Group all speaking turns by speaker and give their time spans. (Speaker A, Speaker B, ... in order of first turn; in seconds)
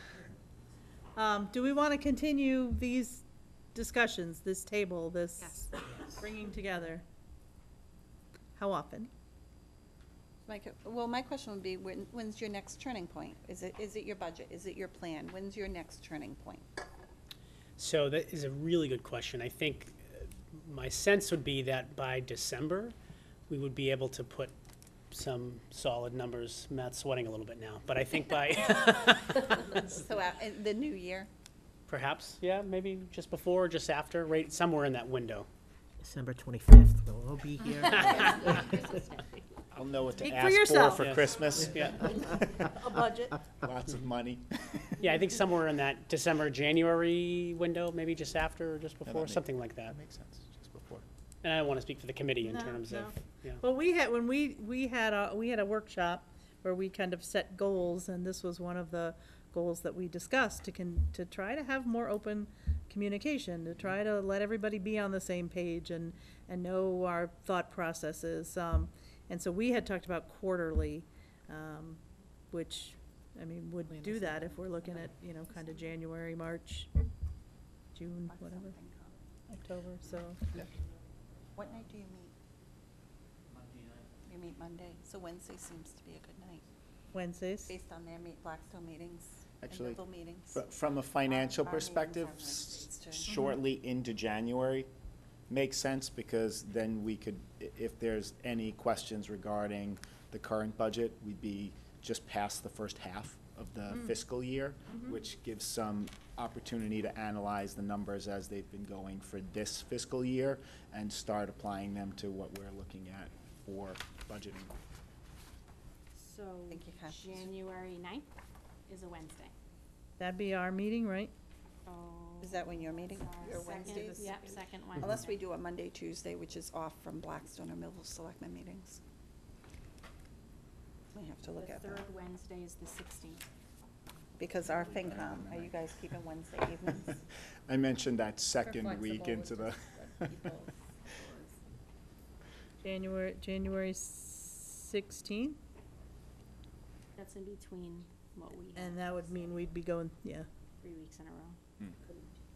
Speaker A: 1.1-7.0, 8.5-9.1, 40.2-41.0, 42.5-43.4, 52.4-76.9, 77.9-78.7, 79.5-80.4, 87.1-87.7, 120.2-121.3, 142.8-145.6, 148.7-150.5
Speaker B: 10.4-16.6, 29.7-31.3, 75.5-75.9, 78.3-79.1, 81.5-82.3, 84.2-86.6, 87.7-90.6, 91.3-93.4, 116.7-117.6, 122.4-129.0, 131.1-132.1, 134.4-137.2
Speaker C: 17.8-22.9, 23.5-24.5, 25.1-29.8, 31.9-35.5, 38.2-38.5, 41.0-42.2, 45.0-49.9, 51.4-53.6
Speaker D: 36.1-38.8
Speaker E: 38.3-38.7, 138.6-141.6
Speaker F: 39.7-42.7, 43.6-44.9, 49.0-51.0, 89.6-90.0, 90.5-94.9, 95.5-114.7, 135.1-135.7, 137.7-140.4
Speaker G: 116.1-118.3, 118.9-119.5, 121.8-125.4, 131.6-133.4, 147.2-149.4, 150.8-151.6